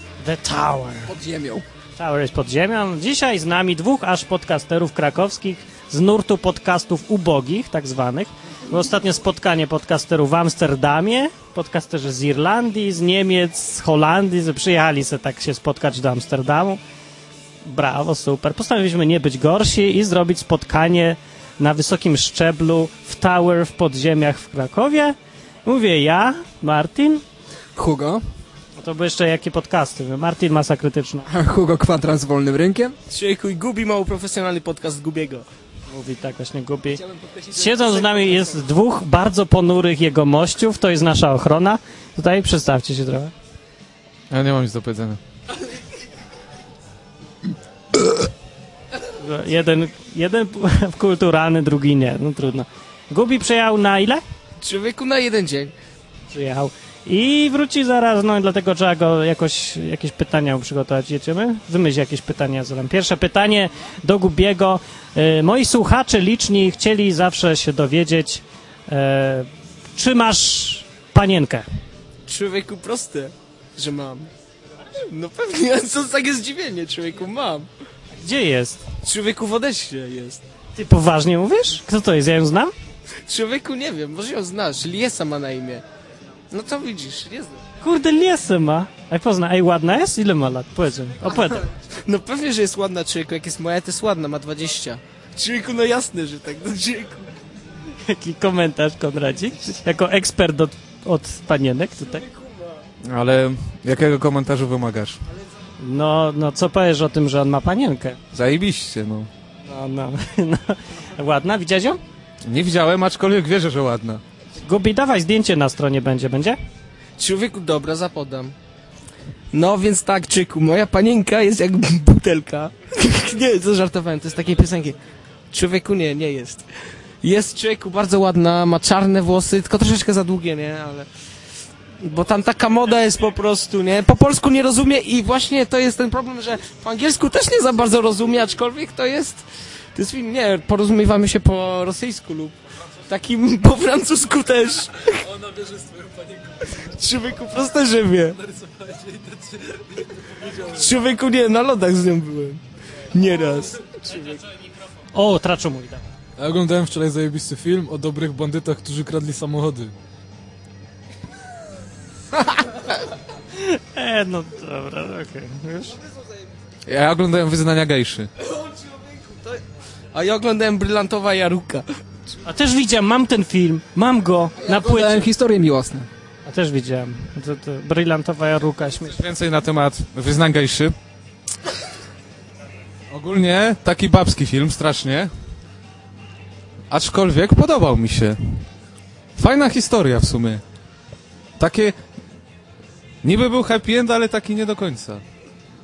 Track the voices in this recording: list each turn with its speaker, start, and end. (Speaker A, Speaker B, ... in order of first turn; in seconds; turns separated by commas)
Speaker A: 0.2-1.1, Speaker B: 1.1-1.7, Speaker A: 2.0-16.8, Speaker A: 17.6-27.2, Speaker B: 27.8-28.2, Speaker A: 28.8-31.3, Speaker B: 31.3-33.0, Speaker C: 33.1-35.5, Speaker A: 35.9-43.3, Speaker B: 37.0-38.3, Speaker D: 44.3-45.2, Speaker A: 49.1-54.2, Speaker C: 54.6-55.7, Speaker A: 56.3-71.7, Speaker C: 72.3-74.3, Speaker C: 75.0-77.7, Speaker A: 78.2-78.8, Speaker C: 79.0-80.4, Speaker A: 80.8-82.7, Speaker C: 83.3-85.8, Speaker C: 86.5-87.6, Speaker A: 87.8-91.7, Speaker C: 91.9-97.3, Speaker A: 98.0-102.3, Speaker D: 103.0-105.2, Speaker A: 105.8-108.2, Speaker D: 108.3-109.3, Speaker A: 109.7-112.0, Speaker D: 112.5-114.2, Speaker A: 114.6-116.6, Speaker C: 117.2-118.5, Speaker C: 119.5-125.0, Speaker C: 125.5-126.7, Speaker C: 127.2-131.1, Speaker C: 132.0-139.4, Speaker C: 139.9-142.6, Speaker C: 143.1-145.3, Speaker E: 145.5-146.2, Speaker C: 146.7-148.4, Speaker E: 148.5-149.8, Speaker C: 150.6-152.6, Speaker C: 153.1-154.4, Speaker A: 155.1-156.0, Speaker E: 156.4-159.9, Speaker A: 163.6-166.0, Speaker D: 166.9-168.3, Speaker C: 170.1-171.8, Speaker A: 172.4-175.3, Speaker B: 174.6-176.1, Speaker A: 176.5-179.2, Speaker D: 179.1-180.9, Speaker D: 183.1-185.3, Speaker D: 186.9-188.4, Speaker D: 189.4-190.6, Speaker D: 191.6-191.9, Speaker D: 193.2-195.2